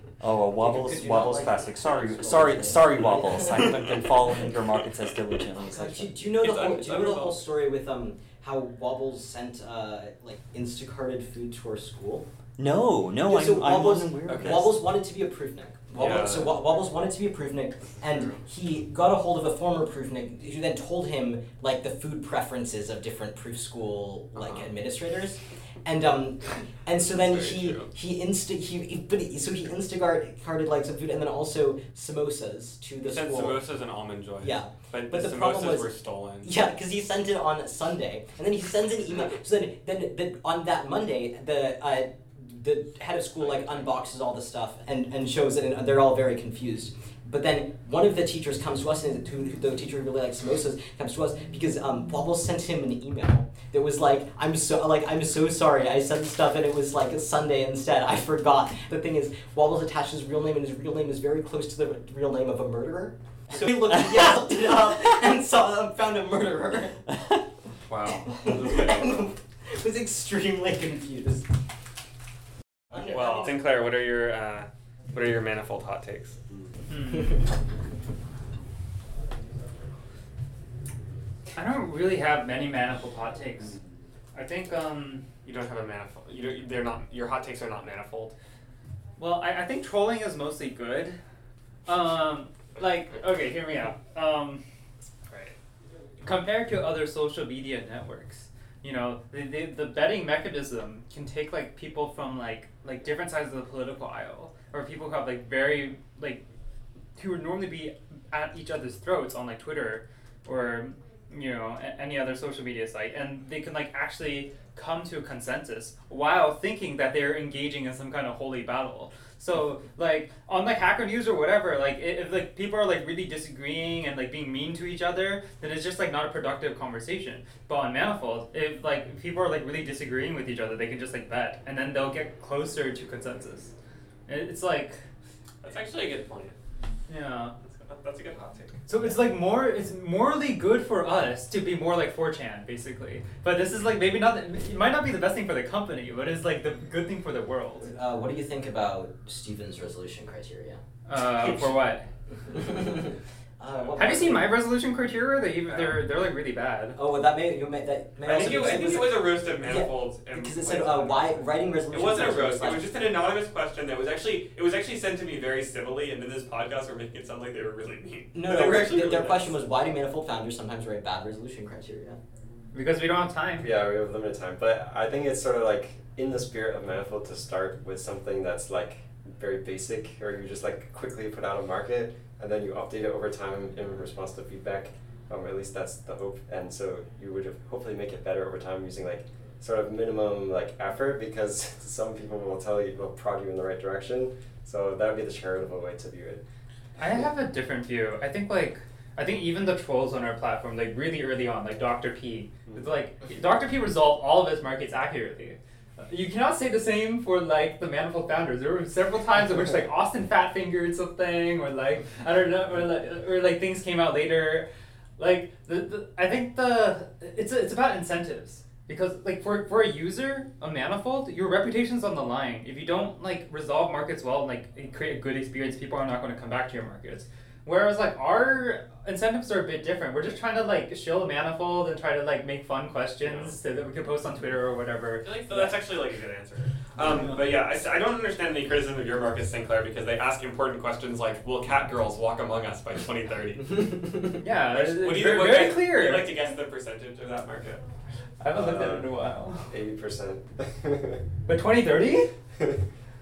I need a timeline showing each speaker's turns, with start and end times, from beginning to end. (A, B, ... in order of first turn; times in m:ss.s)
0:00.2-0:06.2 A
0:00.6-0:03.9 B
0:05.6-0:12.3 B
0:06.4-0:07.4 C
0:12.6-0:14.8 A
0:13.2-0:33.6 B
0:14.3-0:14.7 C
0:16.0-0:16.6 C
0:24.4-0:24.7 C
0:26.9-0:27.9 C
0:33.0-0:36.6 C
0:34.4-1:07.0 B
0:43.4-0:43.9 C
1:07.9-1:09.2 C
1:08.1-1:11.5 B
1:12.9-1:13.6 B
1:13.1-1:16.4 C
1:16.9-1:17.4 D
1:21.6-1:23.7 D
1:24.3-1:25.2 D
1:25.4-1:28.4 C
1:29.2-1:31.2 D
1:31.9-1:34.6 D
1:35.3-1:35.6 C
1:36.2-1:46.4 D
1:47.2-2:13.7 D
2:14.3-2:15.0 D
2:15.6-2:16.6 C
2:17.1-2:17.6 D
2:17.6-2:18.9 C
2:18.9-2:27.9 D
2:27.9-2:30.8 B
2:31.1-2:32.1 D
2:31.2-2:31.6 C
2:32.5-2:34.6 B
2:34.0-2:37.0 D
2:35.7-2:36.0 C
2:37.0-2:42.8 B
2:38.2-2:49.6 C
2:48.3-2:52.2 B
2:52.7-2:53.7 D
2:53.6-3:16.4 E
3:17.0-3:55.8 D
3:53.2-3:53.6 C
3:55.2-4:07.8 C
4:04.4-4:06.4 D
4:08.4-4:09.7 D
4:08.5-4:11.2 E
4:11.5-4:12.3 D